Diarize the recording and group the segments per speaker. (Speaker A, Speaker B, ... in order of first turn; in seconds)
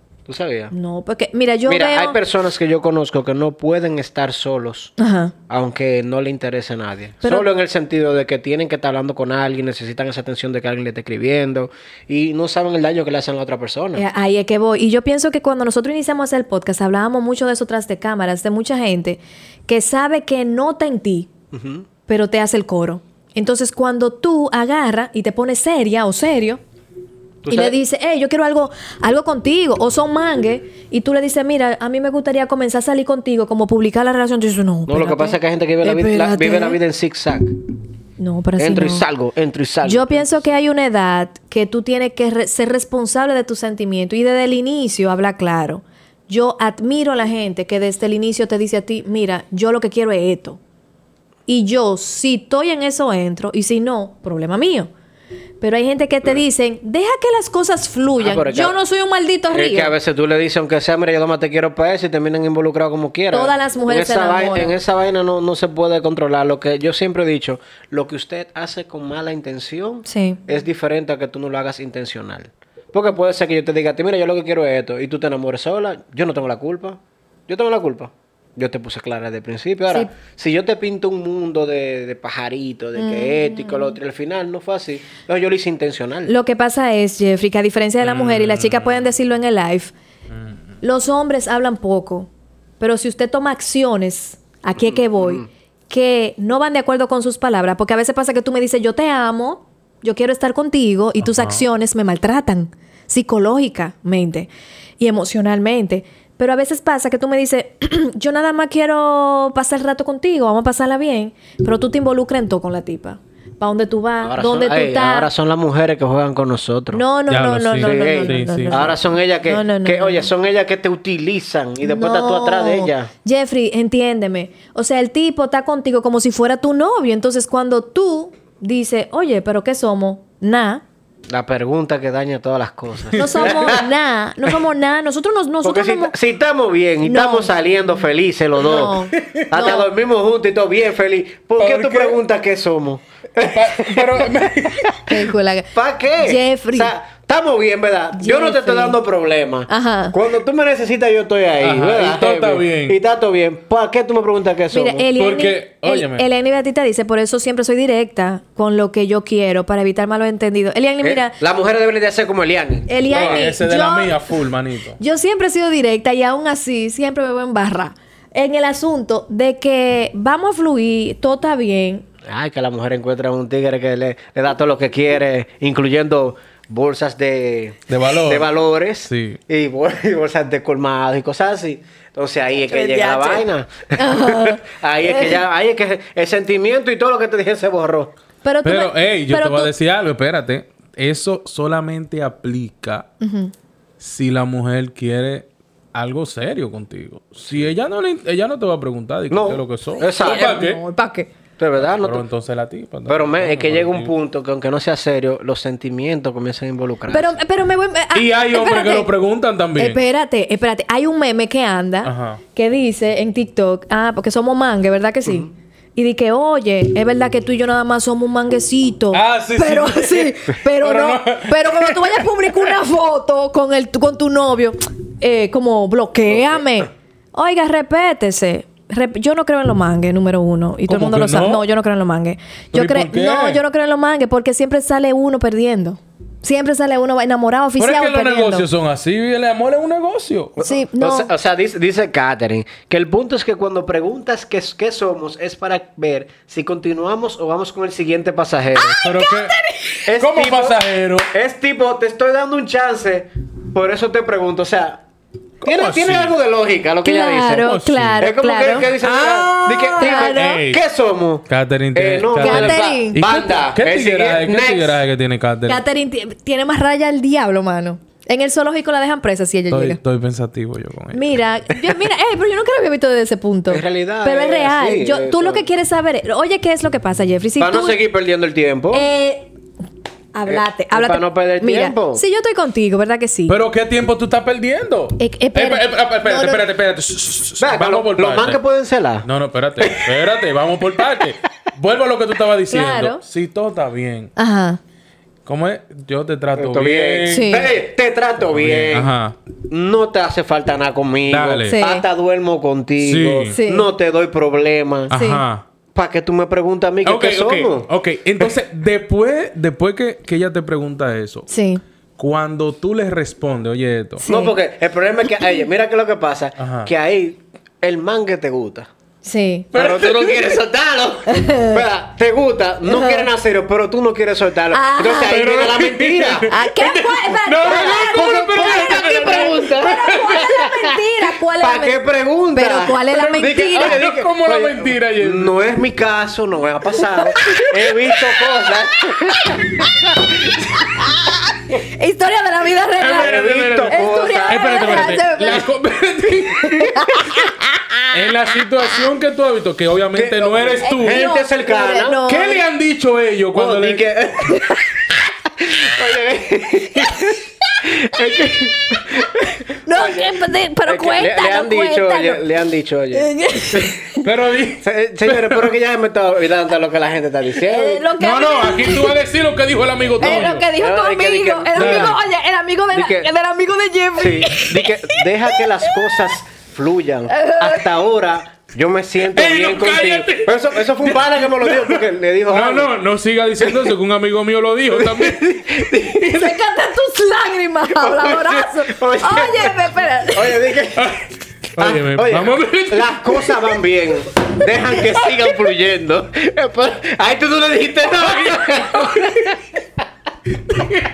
Speaker A: 0.2-0.7, 1.7-4.9, 5.5-14.0, 21.5-21.9, 27.4-27.8, 34.9-37.5, 38.6-40.4, 58.2-58.7, 59.5-86.3, 94.8-95.5, 114.2-117.0, 117.8-123.1, 131.3-133.8, 135.6-144.4, 145.7-155.1, 161.0-163.5, 172.2-188.1, 199.3-200.5, 201.6-202.2, 203.1-207.4, 240.6-249.0, 250.0-250.8, 251.3-255.0, 255.6-265.0, 273.7-275.7, 277.6-279.0, 280.5-282.2, 287.6-289.2, 289.8-290.2, 291.0-291.3, 296.6-299.1, 299.7-305.1, 305.9-307.9, 314.2-318.9, 319.7-326.6, 327.6-330.4, 331.6-340.5, 343.1-345.1, 350.1-352.2, 353.5-354.8, 355.6-360.3, 360.9-363.9, 364.8-368.1, 370.2-372.2, 372.9-373.3, 374.2-382.9, 383.6-383.9, 384.9-386.6, 387.9-391.2, 391.8-399.6
Speaker B: 0.7-2.2, 5.0-5.3, 13.9-21.3, 22.1-26.6, 27.5-36.8, 38.2-39.0, 39.8-50.6, 51.5-54.9, 55.6-59.9, 63.3-64.7, 70.0-70.4, 83.0-84.0, 86.3-89.9, 90.8-92.3, 92.8-115.3, 116.9-120.3, 121.8-130.8, 133.2-136.1, 137.0-137.5, 138.6-139.9, 144.9-146.9, 148.2-149.0, 149.7-150.1, 154.7-161.4, 162.9-164.2, 165.0-172.0, 182.7-183.4, 183.9-185.3, 188.4-189.7, 193.2-193.5, 200.2-201.3, 207.1-209.1, 209.8-238.7, 240.6-241.3, 248.8-250.0, 257.0-258.9, 259.6-260.5, 262.4-263.2, 265.7-270.0, 271.1-278.0, 278.9-279.5, 280.3-283.6, 285.2-286.6, 292.7-293.2, 294.4-294.8, 297.3-297.7, 301.7-302.0, 303.5-303.9, 305.1-305.4, 311.5-311.8, 314.2-314.5, 319.2-319.7, 321.3-321.8, 322.9-323.3, 324.7-325.4, 326.4-332.0, 332.5-334.0, 337.1-338.2, 339.0-345.7, 346.6-348.0, 350.8-352.6, 357.0-357.4, 358.1-359.3, 359.8-362.4, 363.1-364.2, 367.6-369.1, 370.2-376.1, 377.3-377.9, 386.1-390.6
Speaker C: 88.0-89.1, 101.2-101.6, 117.3-118.9, 139.2-139.7, 141.6-142.2, 143.4-145.0, 151.6-153.0, 155.2-156.3, 163.1-165.0, 177.9-178.5, 179.1-179.4, 188.6-193.1, 194.0-200.8, 201.8-204.1, 208.1-210.0, 212.0-212.4, 219.1-222.7, 230.9-231.6, 232.7-233.6, 237.8-240.6, 249.0-251.3, 255.6-256.3, 257.6-258.2, 259.0-260.8, 261.5-265.8, 269.7-271.4, 283.5-288.6, 289.2-294.3, 295.4-297.5, 298.5-299.4, 301.3-301.8, 303.0-303.5, 305.1-305.6, 307.0-311.5, 312.2-314.2, 316.6-316.9, 319.7-320.5, 325.2-330.9, 333.3-335.5, 343.0-347.2, 348.1-351.3, 352.3-354.1, 364.1-365.7, 368.2-370.7, 371.8-372.2, 379.3-385.5, 391.0-393.5, 399.0-399.5